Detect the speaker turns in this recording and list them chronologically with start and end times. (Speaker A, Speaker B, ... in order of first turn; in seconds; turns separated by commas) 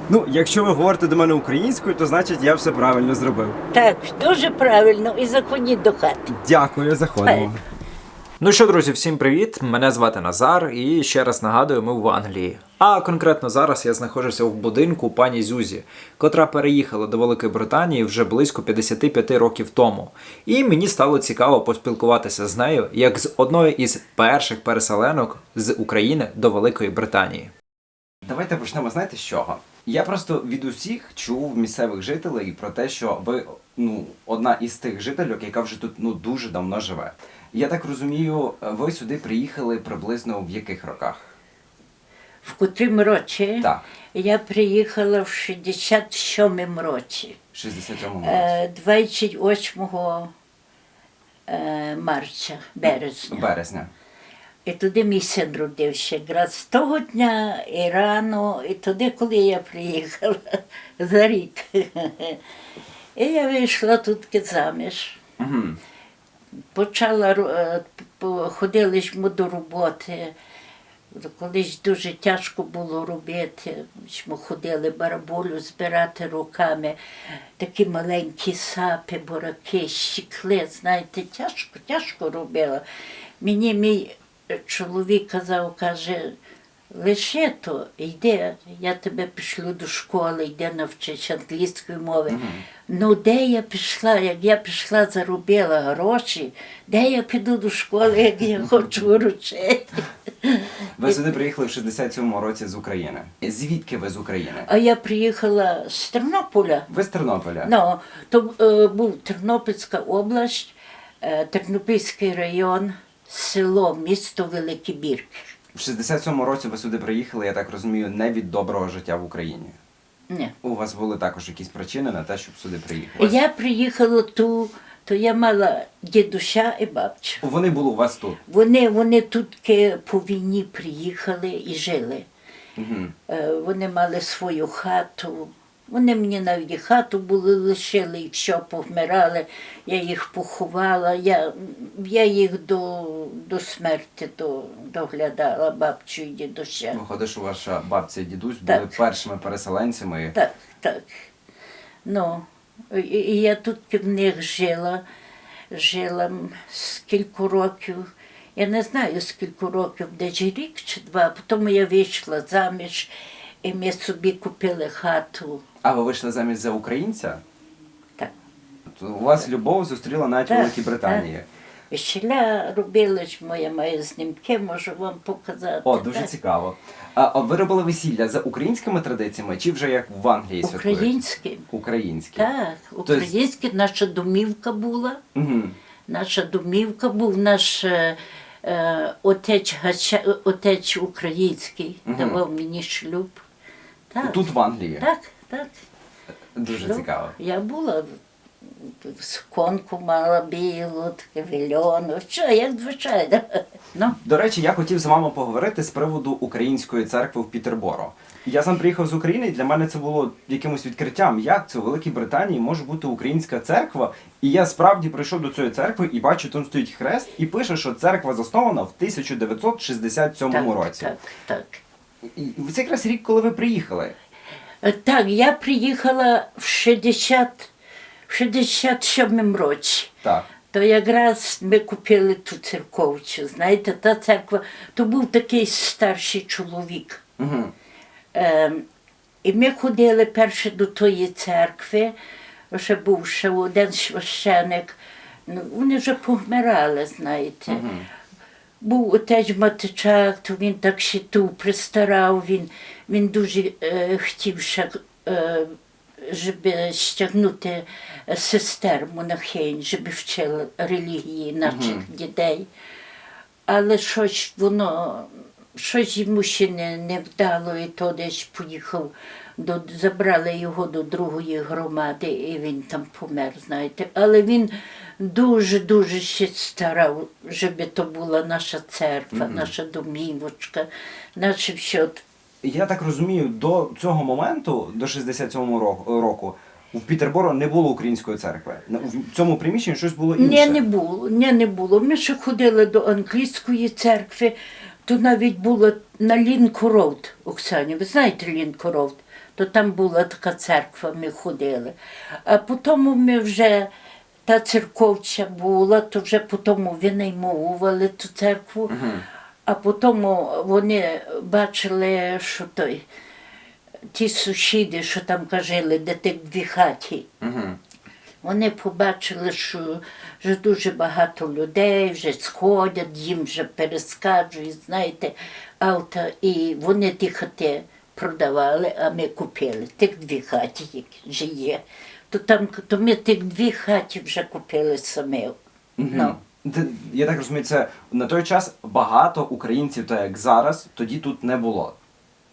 Speaker A: 0.1-3.6, Speaker B: 3.7-6.3, Speaker A: 6.3-7.6, Speaker B: 7.2-7.5, Speaker C: 8.4-27.5, Speaker A: 28.2-41.4, Speaker B: 42.4-47.4, Speaker A: 43.6-43.9, Speaker A: 47.5-48.5, Speaker B: 48.2-50.3, Speaker B: 51.5-53.5, Speaker A: 52.9-53.9, Speaker B: 54.7-62.4, Speaker B: 63.2-65.2, Speaker A: 65.4-65.8, Speaker B: 66.7-70.3, Speaker B: 71.1-77.0, Speaker B: 77.6-82.8, Speaker B: 83.4-86.4, Speaker B: 86.9-100.8, Speaker A: 92.3-92.6, Speaker A: 101.0-104.7, Speaker B: 104.7-106.9, Speaker A: 106.9-107.7, Speaker B: 107.6-115.5, Speaker A: 115.7-119.8, Speaker A: 120.6-123.4, Speaker B: 123.2-127.4, Speaker A: 127.4-128.4, Speaker B: 128.5-132.3, Speaker A: 132.8-133.1, Speaker B: 133.3-147.0, Speaker A: 146.9-150.3, Speaker B: 148.7-148.9, Speaker B: 150.3-151.3, Speaker B: 152.1-155.0, Speaker B: 155.7-163.1, Speaker B: 163.6-165.6, Speaker A: 165.8-167.4, Speaker A: 168.9-171.5, Speaker B: 170.5-171.3, Speaker B: 171.9-176.3, Speaker A: 175.8-181.1, Speaker B: 180.6-181.7, Speaker A: 181.7-182.5, Speaker B: 182.4-185.2, Speaker A: 183.1-183.3, Speaker A: 185.3-185.8, Speaker B: 186.1-193.4, Speaker A: 192.1-192.4, Speaker B: 194.1-194.5, Speaker A: 194.2-195.1, Speaker B: 195.0-195.8, Speaker A: 196.6-197.3, Speaker B: 196.7-198.2, Speaker B: 198.8-204.2, Speaker A: 204.1-221.1, Speaker B: 220.5-221.8, Speaker A: 222.2-224.2, Speaker B: 224.8-227.7, Speaker B: 228.3-230.2, Speaker B: 230.7-237.2, Speaker A: 237.4-237.7, Speaker B: 238.3-238.8, Speaker B: 239.4-242.1, Speaker B: 242.7-247.9, Speaker A: 247.7-248.1, Speaker B: 248.8-262.7, Speaker A: 261.6-262.1, Speaker B: 263.7-282.2, Speaker A: 279.3-279.7, Speaker A: 282.6-290.8, Speaker B: 290.4-303.9, Speaker B: 304.5-309.0, Speaker A: 308.9-309.2, Speaker B: 309.7-313.1, Speaker B: 314.1-317.3, Speaker A: 317.4-317.8, Speaker B: 318.4-335.6, Speaker A: 336.0-341.9, Speaker B: 336.1-336.4